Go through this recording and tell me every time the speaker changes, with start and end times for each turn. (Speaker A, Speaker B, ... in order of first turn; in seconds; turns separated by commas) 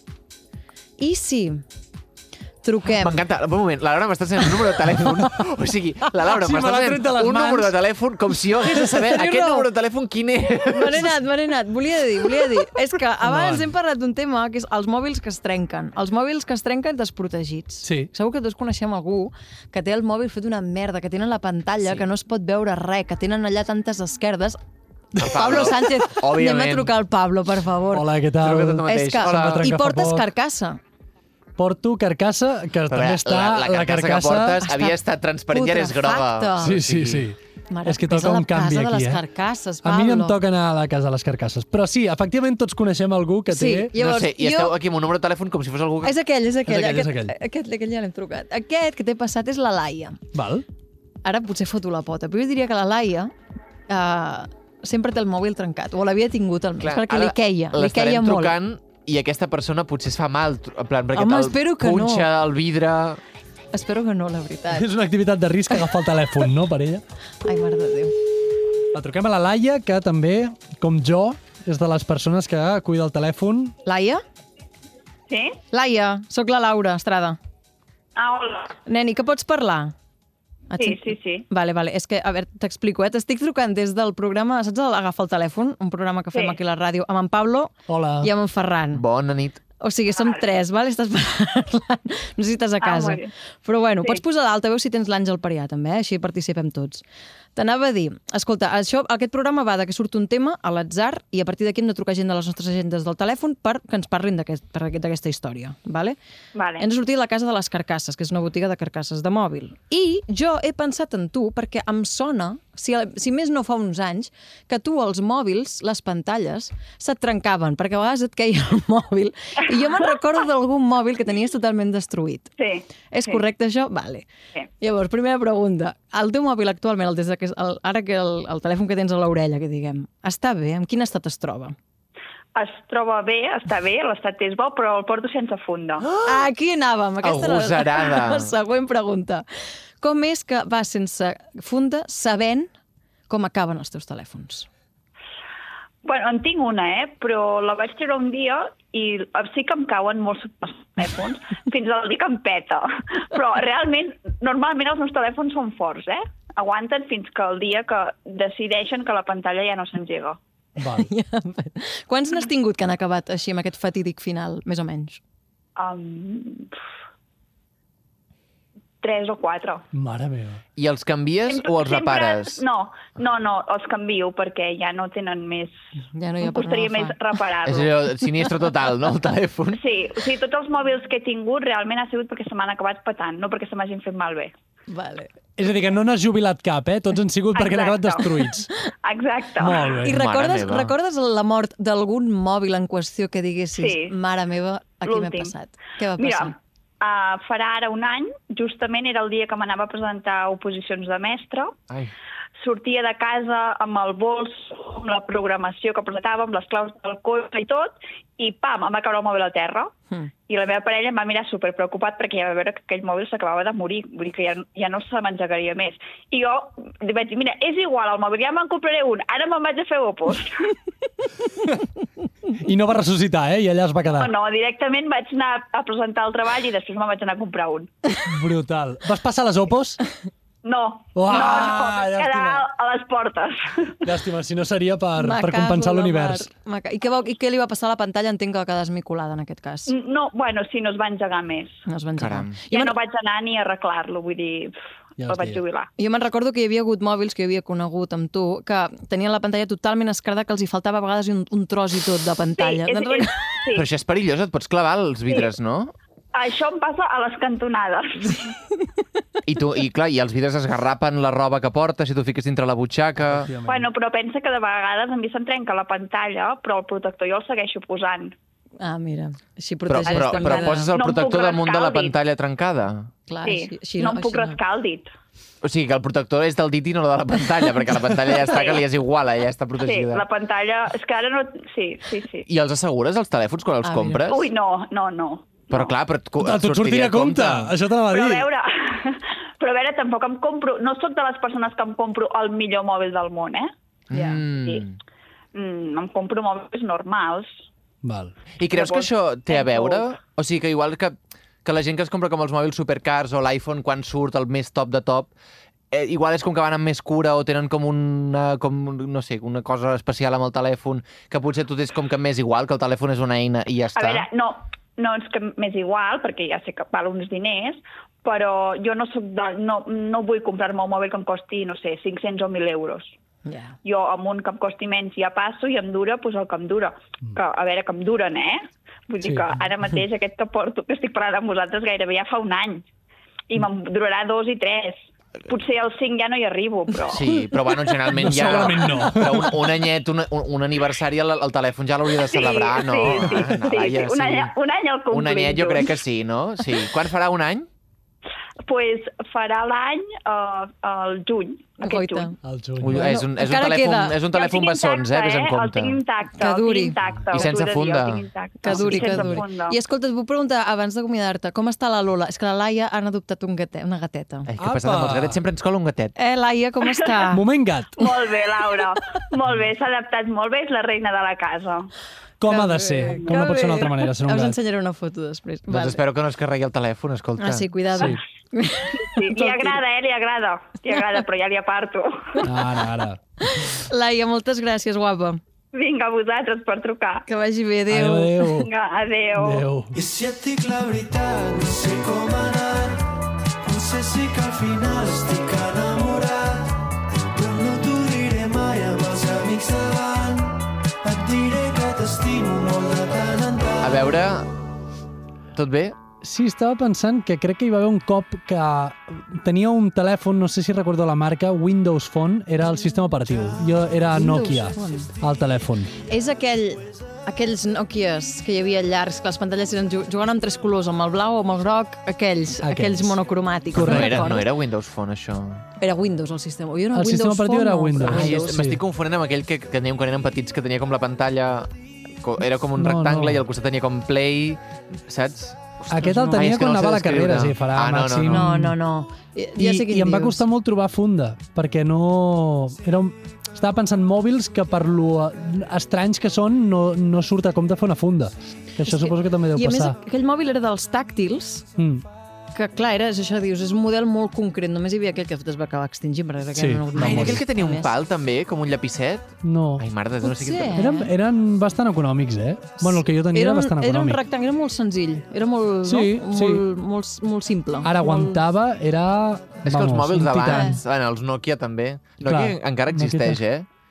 Speaker A: 1.0-1.6, Speaker A: 2.6-3.2, Speaker B: 2.9-11.2, Speaker C: 6.3-7.7, Speaker A: 8.8-9.7, Speaker A: 10.7-24.6, Speaker C: 13.2-13.7, Speaker C: 17.8-18.1, Speaker B: 25.2-26.9, Speaker A: 25.2-28.1, Speaker C: 27.9-30.3, Speaker B: 28.4-29.7, Speaker A: 28.8-30.8, Speaker C: 31.6-34.6, Speaker B: 32.9-37.3, Speaker A: 34.6-35.0, Speaker A: 35.5-36.7, Speaker C: 36.6-39.2, Speaker A: 37.7-40.4, Speaker C: 39.8-43.9, Speaker A: 43.5-44.8, Speaker B: 44.0-46.2, Speaker A: 46.0-50.2, Speaker C: 46.6-47.4, Speaker C: 50.3-50.6, Speaker A: 51.2-53.3, Speaker A: 53.9-58.6, Speaker B: 56.8-63.2, Speaker A: 61.1-62.3, Speaker A: 63.7-64.9, Speaker C: 64.7-67.0, Speaker A: 67.4-68.1, Speaker C: 68.9-73.8, Speaker A: 73.8-74.2, Speaker D: 75.3-75.6, Speaker A: 75.7-77.4, Speaker D: 78.2-78.8, Speaker A: 78.9-79.9, Speaker A: 80.7-89.0, Speaker D: 80.8-81.5, Speaker C: 87.9-88.3, Speaker B: 88.9-89.6, Speaker A: 89.8-97.0, Speaker D: 92.8-93.3, Speaker A: 97.6-106.2, Speaker D: 106.5-106.8, Speaker A: 106.8-122.5, Speaker D: 122.6-123.4, Speaker A: 123.1-124.3, Speaker A: 124.8-131.8, Speaker D: 132.6-136.1, Speaker B: 136.1-136.4, Speaker A: 136.2-139.5, Speaker B: 137.2-138.5, Speaker A: 140.0-142.7, Speaker A: 143.3-144.7, Speaker D: 146.0-160.4, Speaker C: 160.8-161.1, Speaker A: 160.9-165.2, Speaker D: 165.8-166.8, Speaker D: 169.0-169.8, Speaker C: 169.9-170.6, Speaker B: 170.8-172.6, Speaker D: 171.5-175.8, Speaker A: 176.1-177.2, Speaker D: 176.4-177.9, Speaker B: 177.6-179.8, Speaker D: 179.7-184.5, Speaker A: 184.9-185.3, Speaker C: 185.6-188.7, Speaker D: 187.6-188.5, Speaker D: 189.0-189.9, Speaker C: 189.6-190.2, Speaker A: 190.0-196.6, Speaker B: 190.1-190.9, Speaker D: 193.8-194.1, Speaker D: 195.1-195.5, Speaker D: 196.2-201.8, Speaker D: 202.6-209.9, Speaker D: 210.5-220.7, Speaker C: 222.6-224.3, Speaker D: 224.2-227.9, Speaker C: 228.2-230.0, Speaker D: 230.6-234.0, Speaker C: 231.2-232.7, Speaker C: 234.0-236.5, Speaker A: 235.2-239.9, Speaker D: 239.9-241.8, Speaker A: 241.9-242.9, Speaker B: 242.2-242.6, Speaker D: 242.7-245.9, Speaker C: 245.2-245.6, Speaker A: 246.0-253.5, Speaker D: 252.6-253.9, Speaker B: 253.8-255.9, Speaker D: 256.3-258.5, Speaker B: 259.5-263.5, Speaker C: 263.2-263.9, Speaker D: 263.7-268.4, Speaker A: 268.8-270.9, Speaker B: 269.9-273.1, Speaker D: 270.1-272.1, Speaker A: 273.3-274.6, Speaker D: 273.4-275.1, Speaker B: 275.6-280.2, Speaker D: 278.4-278.9, Speaker D: 279.8-282.5, Speaker B: 282.5-284.5, Speaker A: 283.8-284.2, Speaker D: 284.3-285.9, Speaker B: 285.7-287.7, Speaker C: 286.4-288.5, Speaker D: 288.1-293.7, Speaker B: 294.1-295.0, Speaker A: 294.1-294.4, Speaker D: 294.5-294.8, Speaker D: 295.6-297.6, Speaker C: 298.0-298.4, Speaker B: 298.6-305.3, Speaker D: 299.6-300.0, Speaker B: 305.9-314.3, Speaker D: 314.0-323.1, Speaker A: 323.4-323.8, Speaker D: 323.8-332.9, Speaker C: 329.2-329.5, Speaker D: 333.5-337.3, Speaker B: 337.1-344.5, Speaker C: 338.1-339.6, Speaker D: 342.2-346.0, Speaker B: 345.1-347.7, Speaker D: 348.7-352.3, Speaker A: 351.8-352.4, Speaker C: 352.4-353.1, Speaker B: 352.8-356.0, Speaker A: 352.9-354.2, Speaker D: 354.3-359.8, Speaker A: 356.4-357.0, Speaker B: 357.3-358.3, Speaker A: 358.6-364.5, Speaker C: 358.8-359.4, Speaker B: 364.5-366.1, Speaker C: 364.6-365.4, Speaker A: 366.2-367.4, Speaker C: 367.3-368.1, Speaker D: 368.0-371.9, Speaker C: 372.4-374.6, Speaker A: 372.5-376.0, Speaker B: 375.7-377.8, Speaker A: 377.4-379.8, Speaker C: 377.9-378.2, Speaker D: 378.9-382.4, Speaker C: 382.4-383.2, Speaker A: 383.4-385.4, Speaker D: 385.7-387.3, Speaker A: 387.3-388.4, Speaker C: 387.9-388.7, Speaker D: 388.6-389.6, Speaker C: 389.4-390.0, Speaker E: 389.9-393.1, Speaker E: 393.6-396.8, Speaker E: 397.3-404.0, Speaker B: 403.8-404.5, Speaker B: 405.5-406.0, Speaker C: 406.2-415.9, Speaker A: 414.1-415.1, Speaker A: 416.0-424.5, Speaker C: 422.6-423.2, Speaker C: 423.7-424.4, Speaker B: 423.8-425.6, Speaker A: 425.8-428.5, Speaker C: 426.9-428.8, Speaker B: 428.0-438.5, Speaker C: 432.8-433.4, Speaker C: 435.9-438.8, Speaker A: 438.3-440.4, Speaker C: 439.6-450.0, Speaker A: 448.8-451.7, Speaker C: 451.8-452.0, Speaker A: 452.5-457.9, Speaker C: 456.6-457.4, Speaker B: 457.0-460.8, Speaker C: 459.4-459.9, Speaker A: 460.2-461.1, Speaker C: 460.8-464.2, Speaker A: 462.8-468.4, Speaker C: 465.9-466.6, Speaker C: 467.8-470.8, Speaker B: 469.6-473.7, Speaker A: 470.5-470.8, Speaker C: 472.2-473.4